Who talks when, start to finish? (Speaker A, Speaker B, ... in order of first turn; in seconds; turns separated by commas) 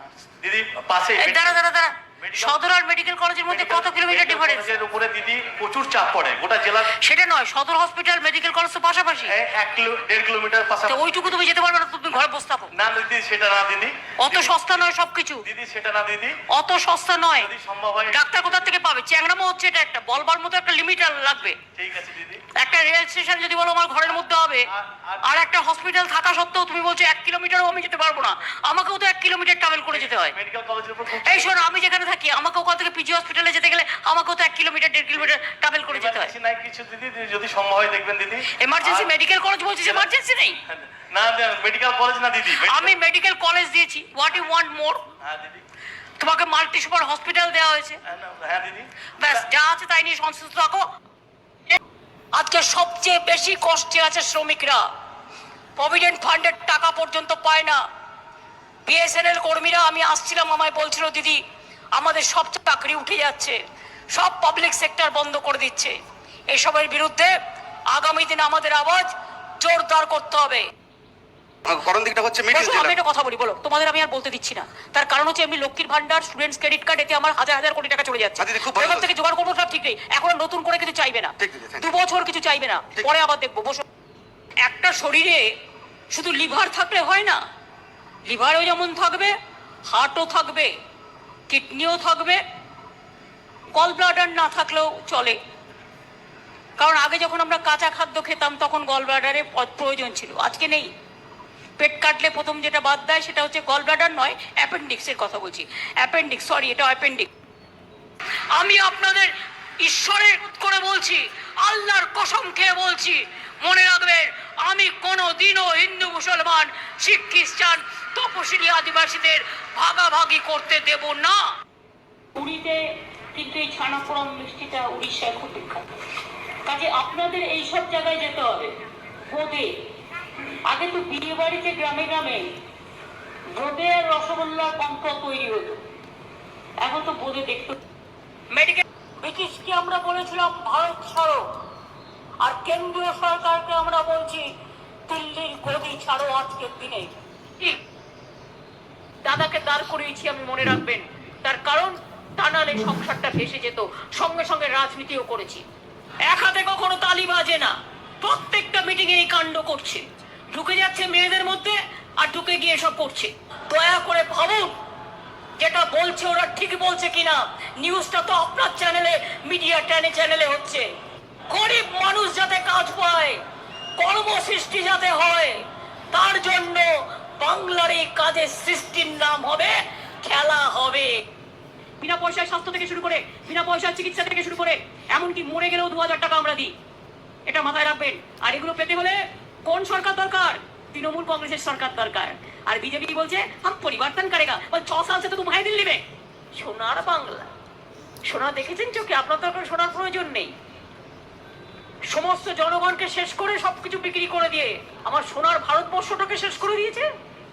Speaker A: 0.4-1.6, Speaker B: 1.2-4.7, Speaker A: 2.2-2.6, Speaker A: 3.5-7.0, Speaker B: 6.9-9.3, Speaker A: 9.3-11.3, Speaker B: 10.9-12.7, Speaker A: 12.7-14.9, Speaker B: 14.2-15.4, Speaker A: 15.4-16.4, Speaker B: 16.5-17.5, Speaker A: 17.4-18.6, Speaker B: 18.1-21.6, Speaker A: 21.8-22.4, Speaker B: 22.5-24.7, Speaker A: 24.7-25.4, Speaker B: 25.2-30.3, Speaker A: 29.9-31.6, Speaker B: 31.2-36.3, Speaker A: 35.9-39.1, Speaker B: 38.6-40.6, Speaker A: 40.7-43.0, Speaker B: 42.6-45.0, Speaker A: 45.2-45.6, Speaker B: 46.2-48.0, Speaker A: 48.0-49.4, Speaker B: 49.2-50.9, Speaker B: 52.3-54.8, Speaker B: 55.8-57.8, Speaker B: 58.9-61.4, Speaker B: 61.9-63.6, Speaker B: 64.1-66.0, Speaker B: 66.5-67.3, Speaker B: 67.9-70.7, Speaker C: 71.6-72.9, Speaker B: 72.5-83.8, Speaker C: 78.4-79.1, Speaker C: 81.4-81.8, Speaker B: 84.6-85.4, Speaker B: 86.1-87.4, Speaker B: 88.3-89.3, Speaker B: 89.9-90.7, Speaker B: 91.5-92.4, Speaker B: 93.7-95.4, Speaker B: 96.8-100.9, Speaker B: 101.8-107.3, Speaker B: 108.5-121.4, Speaker B: 122.3-122.8, Speaker B: 123.3-125.9, Speaker B: 126.6-128.7, Speaker B: 129.3-129.7, Speaker B: 130.7-132.5, Speaker B: 133.5-135.8, Speaker B: 136.8-137.8, Speaker B: 138.5-141.4, Speaker B: 142.4-144.4, Speaker B: 145.1-147.8, Speaker B: 149.2-155.6, Speaker B: 156.3-164.7, Speaker B: 165.6-170.9, Speaker B: 171.5-173.4, Speaker B: 174.0-175.6, Speaker B: 176.1-181.2, Speaker B: 182.0-186.7, Speaker B: 187.4-196.0, Speaker B: 196.6-197.5, Speaker B: 198.2-200.5, Speaker B: 202.1-207.1